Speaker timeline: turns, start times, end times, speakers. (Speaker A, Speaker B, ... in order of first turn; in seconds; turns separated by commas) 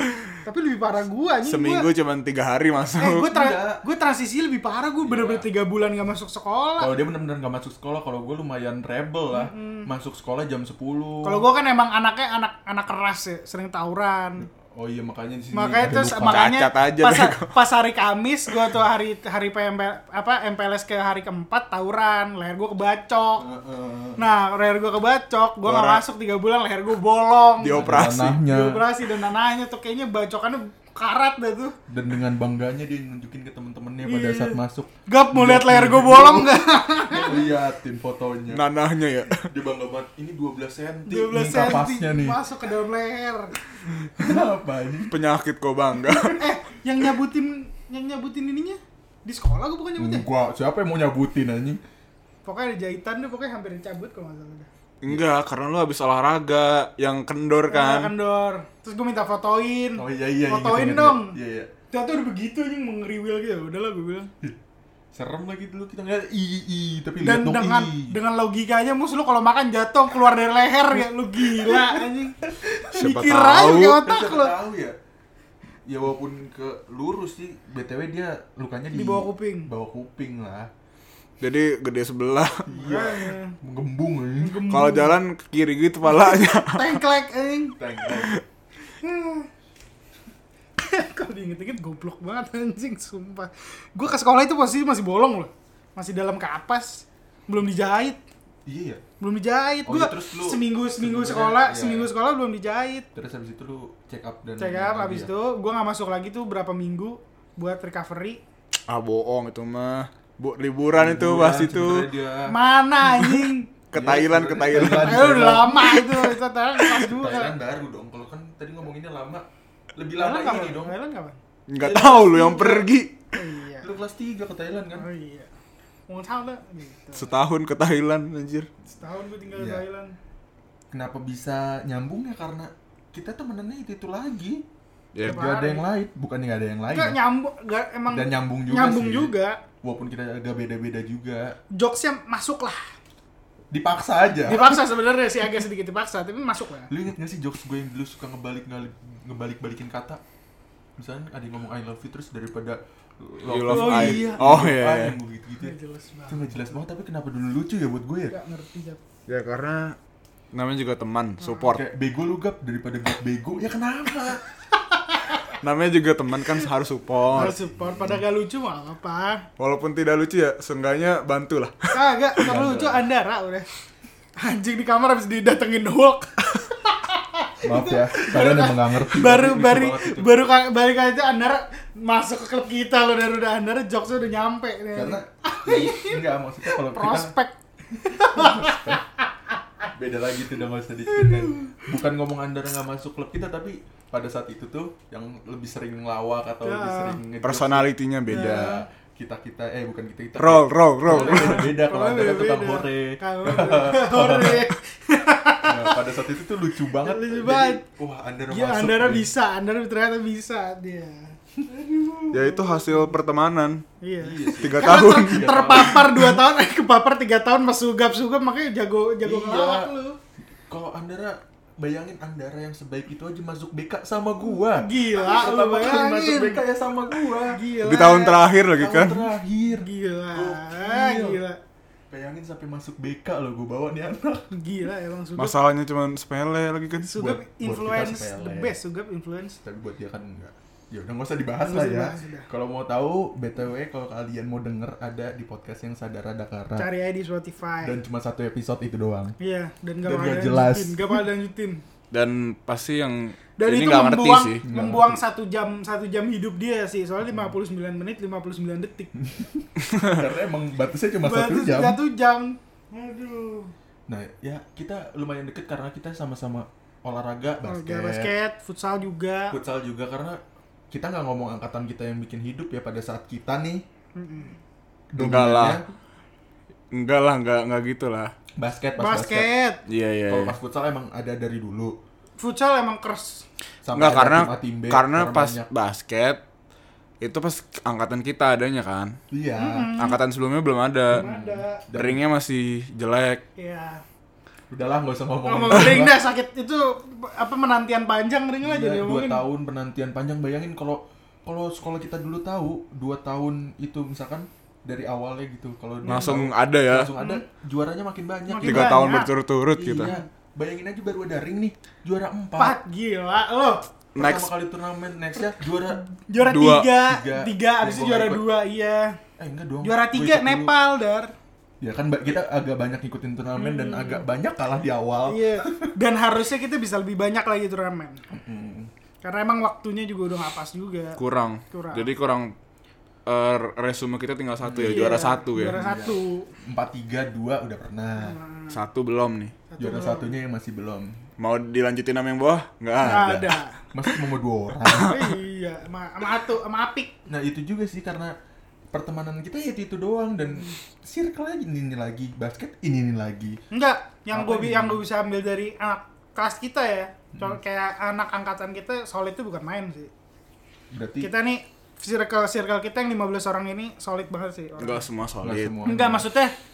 Speaker A: 0.4-1.9, Speaker B: 1.5-3.3, Speaker A: 3.0-6.9, Speaker C: 3.2-3.8, Speaker C: 5.0-5.5, Speaker C: 6.8-11.4, Speaker A: 9.3-9.9, Speaker A: 11.2-14.5, Speaker C: 14.7-16.5, Speaker A: 15.5-23.5, Speaker B: 16.2-17.6, Speaker C: 23.4-24.2, Speaker A: 24.2-31.8, Speaker B: 25.6-26.0, Speaker B: 27.6-28.4, Speaker C: 27.7-28.9, Speaker C: 31.9-38.7, Speaker A: 34.0-37.5, Speaker B: 38.5-39.5, Speaker C: 39.4-42.4, Speaker A: 41.1-43.6, Speaker C: 44.2-45.2, Speaker B: 45.1-46.4, Speaker C: 46.1-46.4, Speaker A: 46.4-50.3, Speaker C: 50.0-51.8, Speaker A: 52.5-54.7, Speaker B: 55.0-58.1, Speaker A: 57.7-61.4, Speaker C: 60.0-61.7, Speaker A: 61.9-64.3, Speaker C: 65.1-68.2, Speaker A: 67.2-74.6, Speaker C: 71.4-72.0, Speaker B: 72.9-74.1, Speaker C: 74.0-75.0, Speaker C: 75.9-80.7, Speaker A: 78.9-79.7, Speaker B: 81.4-82.7, Speaker A: 82.7-83.6, Speaker C: 82.7-84.6, Speaker A: 84.4-85.2, Speaker B: 84.7-87.0, Speaker A: 86.0-87.8, Speaker C: 87.8-88.4, Speaker B: 88.2-88.4, Speaker A: 89.0-89.5, Speaker A: 90.8-98.2, Speaker C: 98.7-99.0, Speaker A: 99.2-103.1, Speaker C: 99.8-102.1, Speaker C: 103.2-105.3, Speaker A: 104.6-108.4, Speaker B: 108.9-112.1, Speaker C: 110.9-112.5, Speaker A: 112.5-113.7, Speaker B: 113.1-115.5, Speaker C: 113.9-116.0, Speaker A: 114.7-117.5, Speaker C: 117.0-121.0, Speaker A: 120.2-121.4, Speaker B: 121.7-123.2, Speaker C: 121.8-122.9, Speaker A: 123.3-123.9, Speaker C: 123.8-125.1, Speaker A: 125.0-125.5, Speaker A: 126.1-127.4, Speaker B: 127.2-128.7, Speaker A: 128.9-130.2, Speaker C: 129.5-129.8, Speaker C: 130.9-134.7, Speaker B: 135.2-135.5, Speaker A: 135.2-135.9, Speaker C: 135.2-137.2, Speaker A: 136.9-139.6, Speaker C: 138.1-141.6, Speaker A: 141.7-142.8, Speaker C: 143.7-144.8, Speaker A: 144.5-146.9, Speaker C: 146.9-150.2, Speaker C: 151.0-155.8, Speaker B: 153.5-155.2, Speaker A: 153.7-154.5, Speaker A: 155.6-156.6, Speaker C: 156.3-158.4, Speaker A: 158.3-159.0, Speaker B: 159.3-160.0, Speaker B: 160.5-161.8, Speaker A: 161.4-161.7, Speaker C: 161.6-164.4, Speaker A: 164.8-165.6, Speaker B: 165.5-167.5, Speaker C: 167.3-168.2, Speaker A: 167.3-169.5, Speaker B: 169.6-171.9, Speaker A: 171.9-173.7, Speaker C: 172.4-173.0, Speaker A: 174.4-189.2, Speaker C: 177.6-180.4, Speaker C: 184.9-187.3, Speaker C: 188.1-189.0, Speaker C: 189.9-204.7, Speaker A: 191.1-191.9, Speaker A: 196.6-197.2, Speaker B: 197.4-198.8, Speaker A: 198.3-198.8, Speaker B: 200.4-201.7, Speaker A: 201.1-206.0, Speaker C: 205.6-209.3, Speaker A: 207.0-207.8, Speaker A: 208.5-213.2, Speaker B: 212.3-213.8, Speaker A: 214.0-220.2, Speaker C: 214.2-216.3, Speaker B: 214.6-216.0, Speaker C: 219.2-219.9, Speaker C: 220.7-227.6, Speaker A: 224.5-226.6, Speaker A: 227.5-228.4, Speaker B: 227.8-229.3, Speaker C: 228.8-231.4, Speaker A: 229.7-231.6, Speaker C: 232.1-234.5, Speaker A: 234.5-235.6, Speaker B: 235.4-237.2, Speaker A: 237.0-239.6, Speaker C: 237.2-238.8, Speaker C: 239.6-246.9, Speaker A: 241.6-242.5, Speaker A: 246.8-248.0, Speaker C: 247.8-249.3, Speaker A: 249.4-251.8, Speaker C: 250.1-251.3, Speaker B: 252.1-254.6, Speaker A: 253.6-259.1, Speaker C: 254.6-255.2, Speaker C: 259.2-262.0, Speaker A: 261.2-263.7, Speaker C: 264.1-268.3, Speaker A: 267.7-269.6, Speaker C: 269.5-273.8, Speaker A: 274.1-274.6, Speaker C: 275.1-275.9, Speaker B: 275.2-275.8, Speaker B: 276.9-278.3, Speaker C: 278.6-279.5, Speaker A: 279.0-279.8, Speaker B: 279.9-280.6, Speaker C: 280.3-281.9, Speaker A: 282.4-283.4, Speaker C: 283.9-285.7, Speaker B: 283.9-286.4, Speaker B: 287.2-289.2, Speaker C: 289.3-289.9, Speaker A: 289.6-290.2, Speaker B: 290.0-291.3, Speaker A: 291.1-291.9, Speaker C: 291.1-292.2, Speaker B: 291.9-293.4, Speaker A: 293.6-294.0, Speaker C: 294.7-296.2, Speaker A: 295.4-299.4, Speaker C: 298.6-309.0, Speaker A: 306.1-306.4, Speaker B: 306.1-307.1, Speaker A: 307.2-307.4, Speaker A: 308.5-310.3, Speaker B: 308.6-310.1, Speaker C: 309.9-312.8, Speaker A: 312.6-313.9, Speaker B: 314.1-314.5, Speaker C: 314.2-316.0, Speaker A: 316.2-319.2, Speaker B: 316.4-316.9, Speaker C: 317.0-318.5, Speaker C: 319.4-320.7, Speaker A: 319.8-321.3, Speaker C: 321.8-325.9, Speaker A: 323.6-324.2, Speaker A: 325.3-328.2, Speaker C: 328.3-328.9, Speaker A: 329.2-331.2, Speaker B: 331.2-332.6, Speaker A: 331.7-332.1, Speaker B: 333.3-335.8, Speaker C: 334.6-338.4, Speaker A: 334.8-336.5, Speaker A: 338.2-338.8, Speaker B: 338.7-339.5, Speaker A: 339.7-340.3, Speaker C: 339.8-341.2, Speaker B: 341.4-343.4, Speaker C: 343.0-345.3, Speaker A: 343.0-343.9, Speaker A: 344.9-347.1, Speaker C: 347.3-348.3, Speaker C: 348.9-353.6, Speaker A: 353.7-360.1, Speaker C: 354.3-355.0, Speaker C: 360.9-361.3, Speaker A: 361.2-365.1, Speaker B: 364.8-365.7, Speaker C: 365.4-366.3, Speaker A: 365.8-366.5